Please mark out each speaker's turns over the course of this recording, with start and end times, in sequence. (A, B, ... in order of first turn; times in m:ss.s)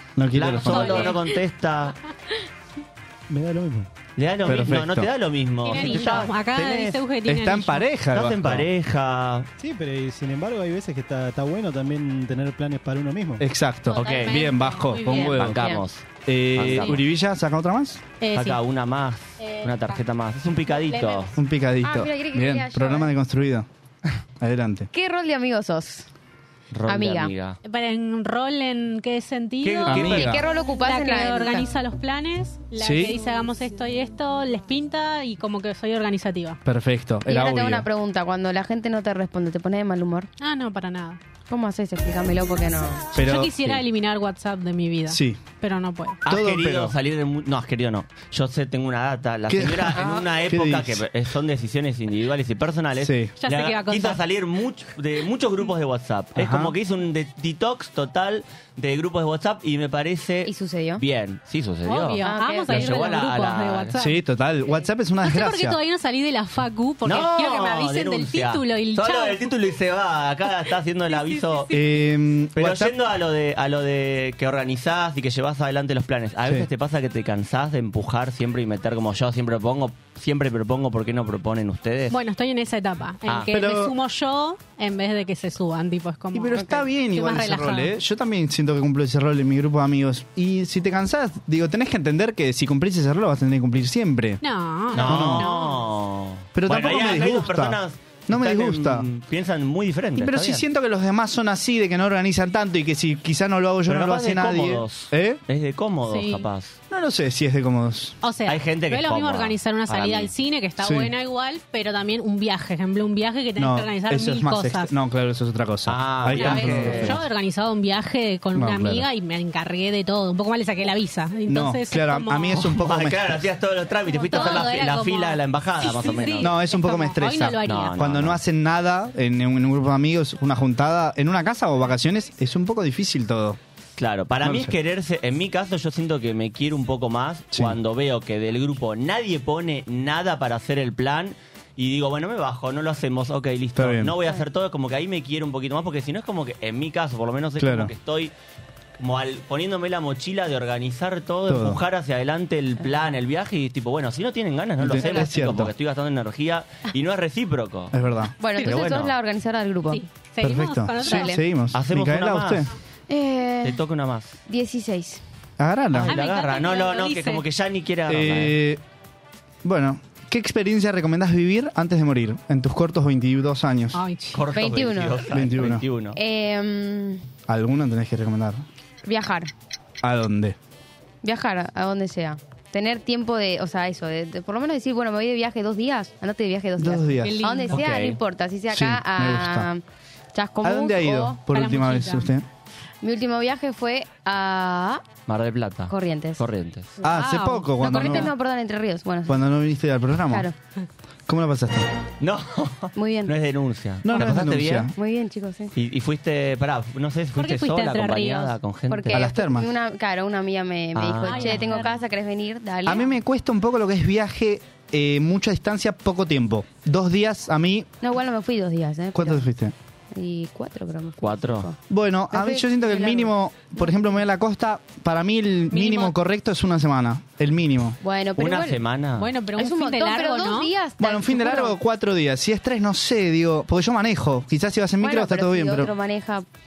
0:00.2-0:01.1 A
0:00.3-0:01.9 B
0:00.6-0:01.4 C
0:03.3-0:03.9 D
0:04.2-0:07.0 B
0:04.4-0:05.1 A
0:05.6-0:07.9 C
0:07.2-0:08.7 A
0:08.1-0:09.5 B
0:09.6-0:13.4 D
0:13.4-0:15.6 A
0:13.9-0:15.6 C
0:13.9-0:14.5 B
0:15.1-0:17.0 B
0:15.1-0:15.8 E
0:16.2-0:18.0 A
0:16.6-0:17.0 C
0:18.2-0:18.6 C
0:18.3-0:21.3 B
0:19.4-0:20.0 C
0:20.7-0:21.4 C
0:21.4-0:23.7 A
0:21.8-0:23.1 E
0:24.4-0:24.9 A
0:24.9-0:26.1 E
0:26.7-0:27.6 B
0:26.9-0:27.3 E
0:27.6-0:36.6 C
0:29.6-0:30.3 B
0:29.9-0:30.4 A
0:30.1-0:31.7 E
0:32.8-0:33.2 A
0:36.6-0:37.8 A
0:37.2-0:40.3 E
0:40.4-0:41.2 C
0:41.5-0:43.1 E
0:43.2-0:43.8 A
0:43.2-0:46.2 C
0:45.1-0:45.4 A
0:46.2-0:46.9 A
0:46.2-1:03.9 B
0:49.5-0:51.0 A
0:53.0-0:53.3 A
0:53.4-0:54.2 C
0:56.4-0:56.7 A
1:00.4-1:01.0 E
1:01.8-1:04.2 C
1:02.2-1:03.1 E
1:04.0-1:05.8 A
1:05.2-1:09.4 C
1:07.0-1:11.7 B
1:11.1-1:11.9 C
1:11.7-1:12.9 A
1:12.6-1:22.2 B
1:22.1-1:27.9 C
1:23.5-1:23.9 A
1:26.3-1:34.4 A
1:34.4-1:35.8 C
1:34.9-1:40.6 B
1:34.9-1:35.5 A
1:36.5-1:39.0 A
1:40.2-1:45.4 A
1:43.9-1:46.8 B
1:46.1-1:46.5 C
1:46.9-1:48.2 A
1:48.2-1:54.9 C
1:48.5-1:50.3 B
1:50.8-1:51.1 A
1:53.6-1:57.2 A
1:55.9-1:57.2 B
1:56.3-2:02.7 C
1:58.5-1:59.0 A
2:01.5-2:03.4 A
2:02.5-2:06.5 B
2:04.1-2:08.0 C
2:06.4-2:13.6 A
2:07.6-2:08.4 B
2:14.0-2:28.3 B
2:14.4-2:14.7 A
2:23.8-2:24.2 A
2:27.6-2:27.9 A
2:29.0-2:37.9 B
2:31.5-2:31.8 A
2:34.8-2:35.7 A
2:37.9-2:39.1 A
2:38.4-2:40.0 E
2:38.6-2:39.1 B
2:39.9-2:41.4 C
2:40.4-2:42.7 A
2:41.0-2:41.4 E
2:41.7-2:42.7 B
2:43.1-2:43.8 E
2:43.6-2:44.4 B
2:44.5-2:45.2 E
2:45.6-2:46.1 A
2:45.9-2:48.6 B
2:46.0-2:47.4 C
2:48.1-2:48.8 A
2:49.6-2:54.0 A
2:53.9-2:54.4 C
2:54.3-2:56.2 B
2:54.5-2:55.3 E
2:55.3-2:55.8 A
2:56.1-2:57.2 E
2:57.5-2:58.6 A
2:59.0-2:59.5 E
3:00.0-3:00.6 A
3:01.2-3:09.8 E
3:06.8-3:07.5 A
3:07.2-3:07.8 C
3:07.7-3:08.2 B
3:08.7-3:09.7 A
3:10.3-3:11.4 E
3:10.6-3:12.4 A
3:11.5-3:12.3 C
3:13.0-3:15.1 E
3:15.3-3:16.9 B
3:15.9-3:16.4 E
3:17.0-3:18.3 C
3:17.0-3:18.3 A
3:17.8-3:19.4 E
3:19.3-3:20.4 A
3:20.3-3:20.5 E
3:21.3-3:21.9 A
3:22.2-3:24.9 B
3:23.0-3:23.3 E
3:24.0-3:24.9 A
3:24.9-3:25.7 E
3:25.7-3:29.3 B
3:27.4-3:28.6 C
3:28.9-3:33.1 E
3:29.1-3:29.7 A
3:30.9-3:31.7 B
3:31.2-3:32.1 C
3:32.8-3:37.9 A
3:38.0-3:39.4 E
3:39.1-3:39.7 A
3:40.1-3:41.8 E
3:41.2-3:41.7 B
3:41.9-3:48.0 A
3:42.3-3:44.1 E
3:45.7-3:46.2 C
3:48.0-3:48.8 E
3:48.4-3:49.3 B
3:49.2-3:50.7 C
3:49.5-3:51.7 E
3:51.0-3:55.9 A
3:55.0-3:56.4 E